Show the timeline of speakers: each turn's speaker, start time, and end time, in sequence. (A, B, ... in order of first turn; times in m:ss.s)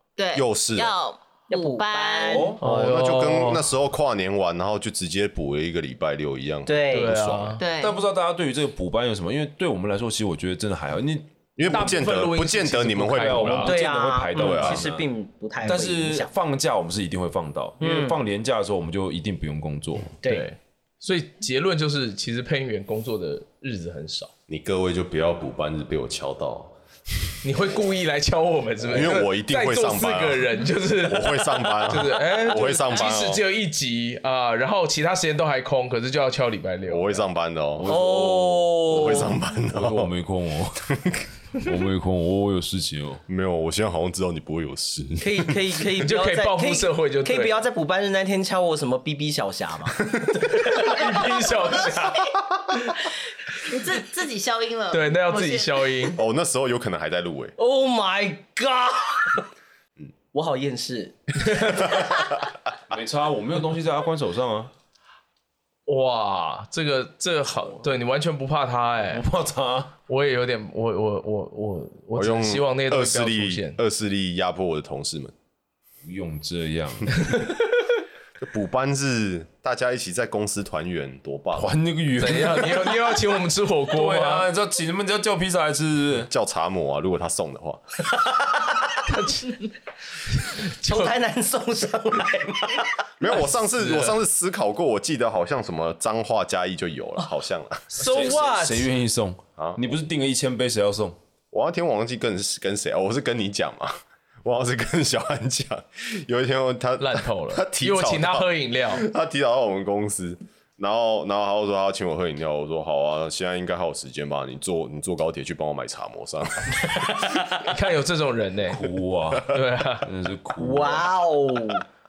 0:00.2-0:02.5 A
0:00.4-0:00.9 B
0:01.5-0:02.6 C
0:02.3-0:02.6 D
0:02.6-0:07.6 B
0:02.6-0:03.7 E
0:06.7-0:07.2 C
0:06.9-0:07.6 E
0:07.6-0:08.0 A
0:07.8-0:11.4 D
0:11.6-0:13.8 B
0:11.7-0:13.8 E
0:13.1-0:15.1 D
0:13.6-0:16.3 C
0:14.3-0:14.9 B
0:15.6-0:20.1 D
0:17.8-0:18.2 C
0:20.2-0:20.5 C
0:20.2-0:24.3 E
0:24.5-0:26.7 B
0:27.4-0:37.3 E
0:28.8-0:33.4 B
0:36.9-0:37.9 B
0:37.8-0:40.9 D
0:37.9-0:39.4 C
0:38.9-0:40.1 B
0:41.0-0:41.2 B
0:41.6-0:43.2 D
0:43.3-0:45.6 B
0:45.2-0:50.0 C
0:46.0-0:47.6 E
0:50.3-0:53.0 E
0:53.5-0:56.0 A
0:54.9-0:56.2 E
0:56.2-0:57.6 B
0:57.6-0:59.4 C
1:00.3-1:02.0 C
1:01.5-1:02.2 B
1:02.9-1:04.7 D
1:05.9-1:09.2 E
1:09.1-1:09.9 D
1:10.1-1:13.8 E
1:12.2-1:15.3 B
1:16.0-1:17.1 D
1:17.2-1:17.6 E
1:18.4-1:21.7 B
1:21.5-1:23.1 D
1:22.2-1:24.5 E
1:23.9-1:26.3 D
1:26.2-1:27.8 B
1:28.3-1:29.0 C
1:29.1-1:29.7 E
1:30.3-1:31.1 E
1:30.8-1:33.0 C
1:33.2-1:37.9 B
1:33.3-1:34.2 E
1:37.9-1:41.2 D
1:38.0-1:38.9 E
1:41.5-1:57.3 B
1:47.0-1:49.1 E
1:57.0-1:57.4 C
1:57.5-1:58.8 E
1:58.7-2:01.1 D
1:59.4-2:00.1 E
2:00.6-2:01.8 C